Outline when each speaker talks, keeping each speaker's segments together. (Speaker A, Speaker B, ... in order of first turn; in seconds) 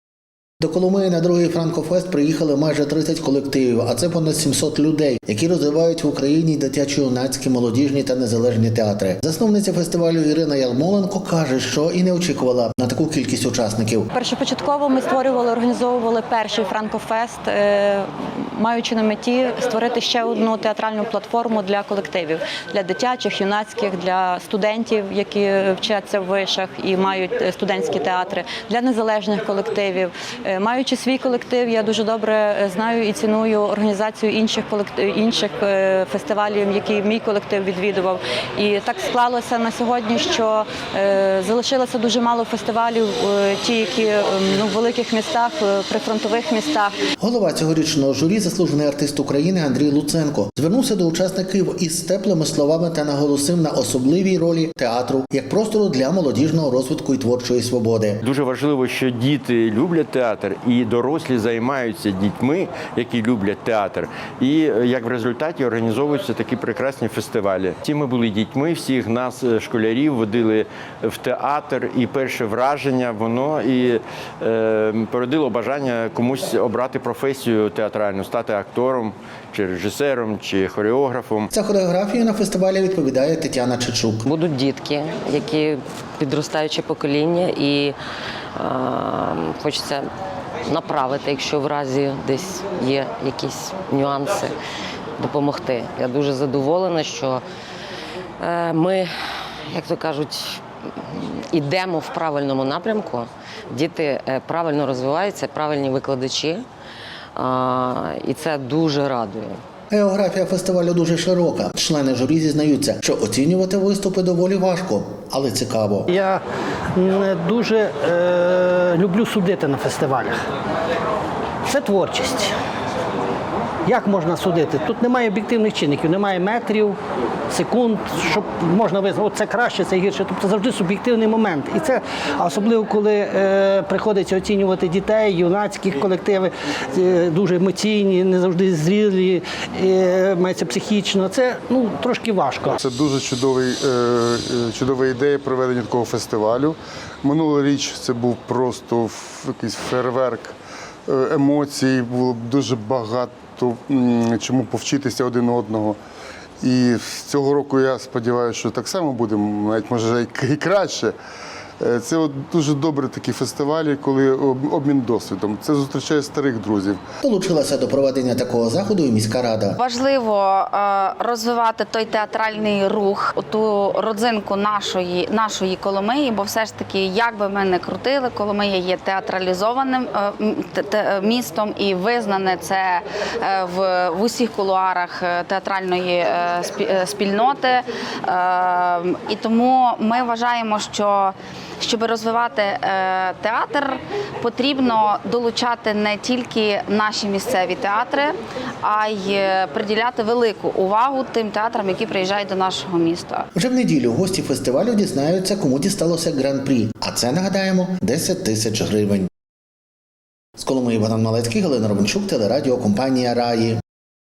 Speaker A: 0.6-14.1, 47.2-58.2, 81.5-84.2, 109.9-116.1, 167.2-169.8, 203.5-209.3, 210.6-213.8
Speaker B: 14.1-47.0
Speaker C: 58.2-81.5
Speaker D: 84.2-88.0, 88.5-90.1, 90.7-94.5, 95.2-97.4, 98.4-106.6, 107.3-109.6
Speaker E: 116.1-116.4, 116.9-120.4, 121.7-122.5, 123.8-127.0, 127.5-142.8
Speaker F: 142.8-156.0, 156.6-161.2, 161.8-167.0
Speaker G: 169.8-203.5